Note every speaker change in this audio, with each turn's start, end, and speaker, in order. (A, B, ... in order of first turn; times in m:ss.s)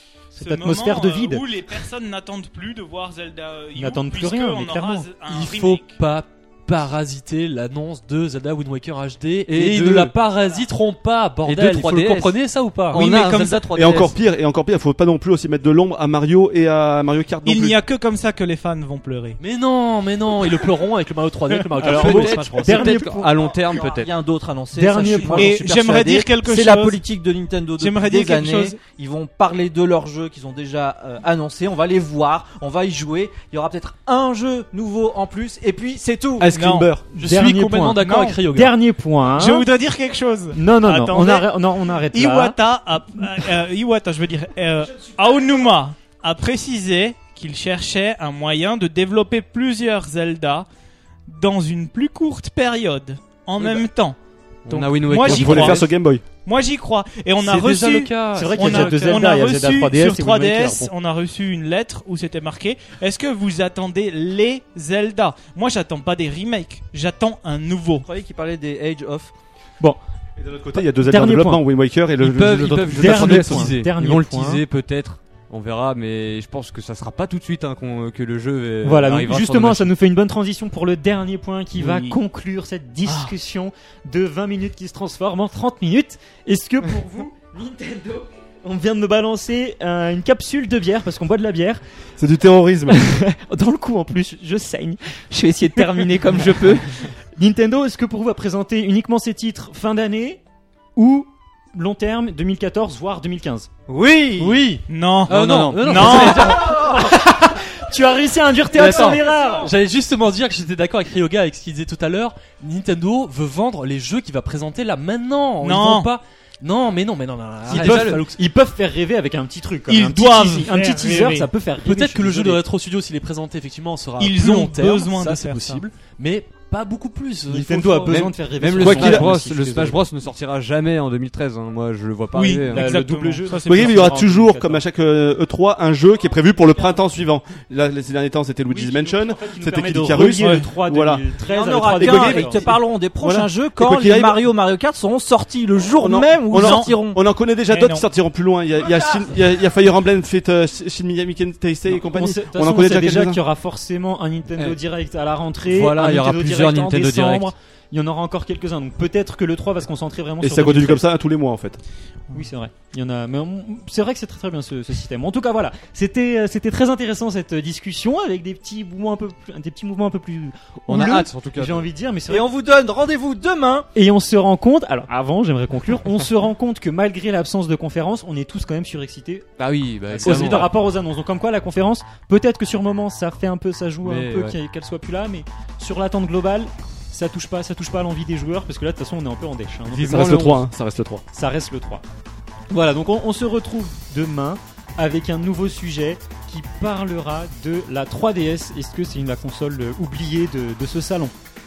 0:00.3-0:01.5 A
0:00.3-0:06.0 B
0:03.8-0:05.1 A
0:05.3-0:13.1 C
0:09.5-0:10.2 D
0:11.4-0:14.2 D
0:12.9-0:13.8 B
0:13.7-0:17.8 E
0:17.4-0:19.4 B
0:19.4-0:23.0 C
0:21.8-0:23.3 A
0:21.8-0:24.1 D
0:22.5-0:36.6 F
0:24.7-0:26.2 A
0:25.3-0:27.0 B
0:27.8-0:28.8 B
0:36.4-0:37.0 E
0:36.5-0:37.0 B
0:37.1-0:38.8 C
0:37.1-0:39.7 A
0:38.0-0:38.4 B
0:39.3-0:50.7 B
0:40.5-0:42.6 A
0:51.3-0:55.8 B
0:53.6-0:53.9 D
0:54.7-0:55.9 D
0:55.2-0:56.2 E
0:56.4-1:08.0 B
0:57.4-0:59.3 C
0:58.3-1:00.9 A
1:08.0-1:09.3 F
1:10.4-1:13.7 E
1:10.7-1:11.6 A
1:12.2-1:19.9 D
1:12.5-1:14.6 A
1:18.8-1:31.8 A
1:21.8-1:22.2 D
1:23.0-1:23.3 D
1:32.2-1:33.1 E
1:32.9-1:40.4 A
1:41.0-1:43.7 A
1:43.9-1:44.6 D
1:44.4-1:46.8 C
1:44.9-1:46.2 B
1:45.3-1:46.7 D
1:45.8-1:49.7 A
1:48.7-1:49.2 D
1:48.8-1:58.4 C
1:55.6-1:56.1 B
1:57.7-2:02.6 A
1:57.7-1:58.3 D
1:59.9-2:01.5 B
2:01.8-2:09.2 C
2:04.2-2:05.8 B
2:07.5-2:10.0 A
2:08.1-2:12.9 D
2:08.8-2:09.3 E
2:12.3-2:14.3 B
2:12.7-2:14.8 A
2:13.7-2:21.4 E
2:18.7-2:22.7 A
2:20.2-2:20.7 B
2:21.4-2:27.2 F
2:21.9-2:24.5 E
2:26.0-2:33.4 E
2:26.6-2:27.0 B
2:27.6-2:28.1 B
2:31.9-2:41.0 A
2:35.7-2:37.5 D
2:40.4-2:41.8 E
2:42.3-2:52.5 A
2:50.9-2:51.9 D
2:52.3-2:53.9 F
2:53.9-2:59.5 A
2:59.6-3:00.7 D
3:00.1-3:10.6 A
3:00.2-3:00.7 C
3:04.0-3:04.6 D
3:09.9-3:11.2 E
3:10.1-3:10.7 D
3:11.3-3:12.0 A
3:12.7-3:21.3 A